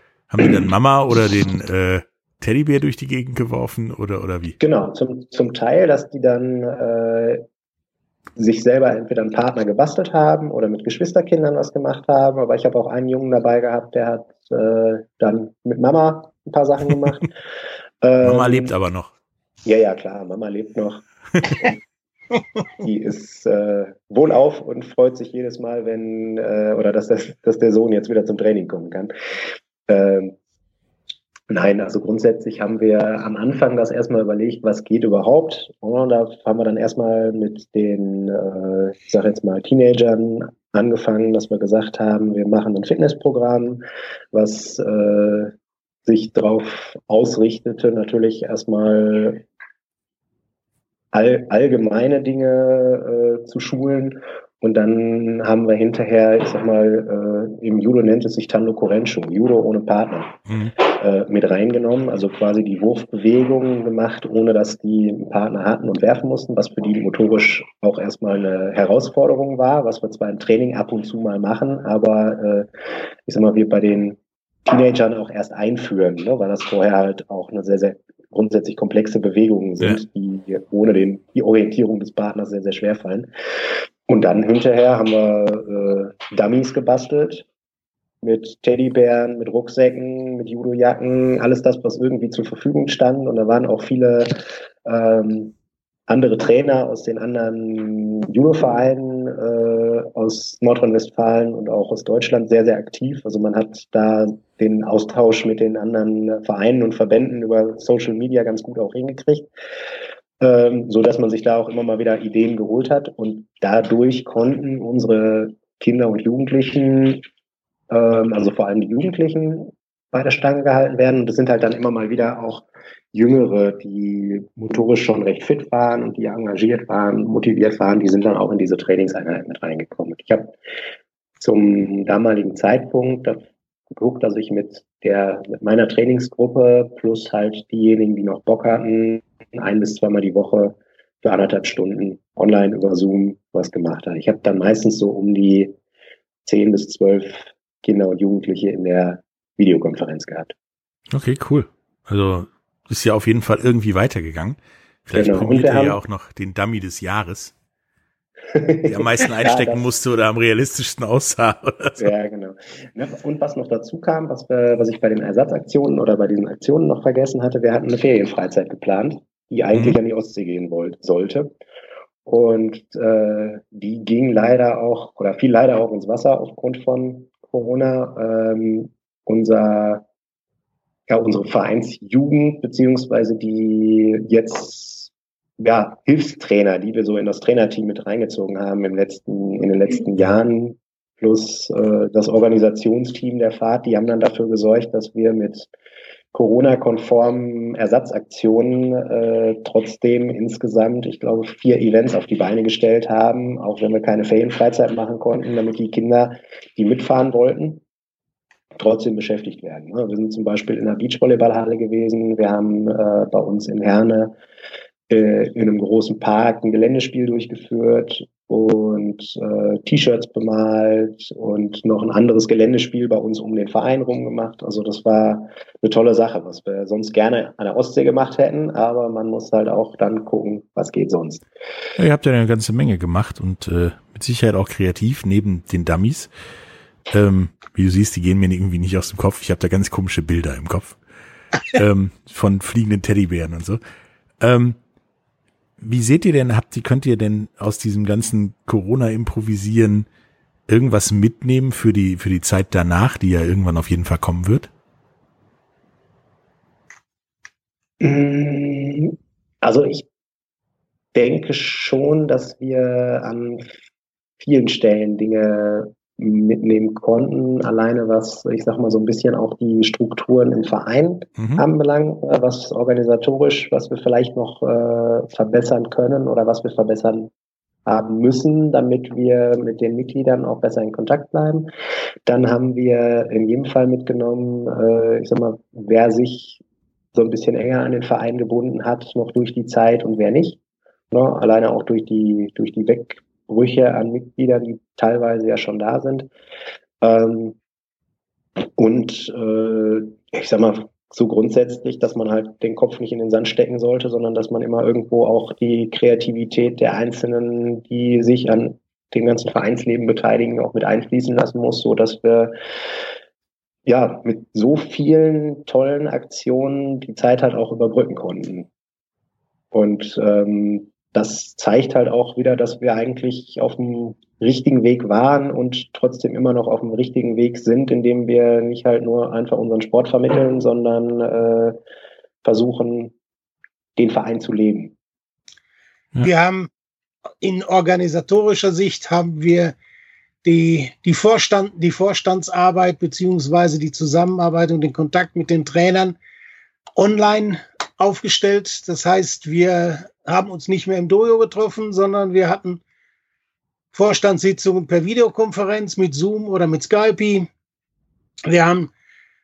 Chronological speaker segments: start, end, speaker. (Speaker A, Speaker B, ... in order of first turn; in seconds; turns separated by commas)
Speaker A: 0.3-4.5, Speaker B: 4.6-7.4, Speaker B: 8.4-17.3, Speaker B: 18.0-18.7, Speaker A: 18.2-19.1, Speaker B: 19.6-21.7, Speaker B: 22.8-29.1, Speaker B: 29.9-30.3, Speaker B: 31.5-45.5, Speaker B: 46.0-49.4, Speaker B: 51.1-72.7, Speaker A: 60.5-60.7, Speaker B: 73.2-83.3, Speaker B: 84.1-87.5, Speaker B: 88.2-95.5, Speaker B: 96.1-109.5, Speaker B: 110.4-117.2, Speaker B: 117.9-130.6, Speaker B: 131.4-145.7, Speaker B: 146.4-150.5, Speaker A: 151.1-157.5, Speaker B: 155.1-156.0, Speaker B: 158.5-159.9, Speaker A: 158.8-162.1, Speaker B: 162.0-171.5, Speaker A: 169.7-170.0, Speaker B: 172.2-180.0, Speaker B: 181.1-195.7, Speaker B: 196.3-207.8, Speaker B: 208.8-214.3, Speaker B: 215.1-231.4, Speaker A: 232.0-236.3, Speaker A: 237.1-241.0, Speaker A: 241.7-243.8, Speaker A: 244.4-244.8, Speaker A: 245.8-250.1, Speaker A: 250.7-254.7, Speaker B: 258.0-260.1, Speaker B: 261.1-263.7, Speaker B: 264.4-277.3, Speaker A: 271.4-271.6, Speaker B: 277.9-281.7, Speaker B: 282.2-286.6, Speaker B: 287.1-290.6, Speaker B: 291.1-296.3, Speaker B: 297.0-297.6, Speaker B: 298.8-312.5, Speaker B: 313.9-318.7, Speaker B: 319.7-331.8, Speaker B: 332.4-333.1, Speaker B: 334.0-334.9, Speaker C: 336.2-336.7, Speaker C: 337.4-339.8, Speaker C: 340.4-346.2, Speaker C: 346.9-352.8, Speaker C: 353.9-357.5, Speaker C: 358.4-358.9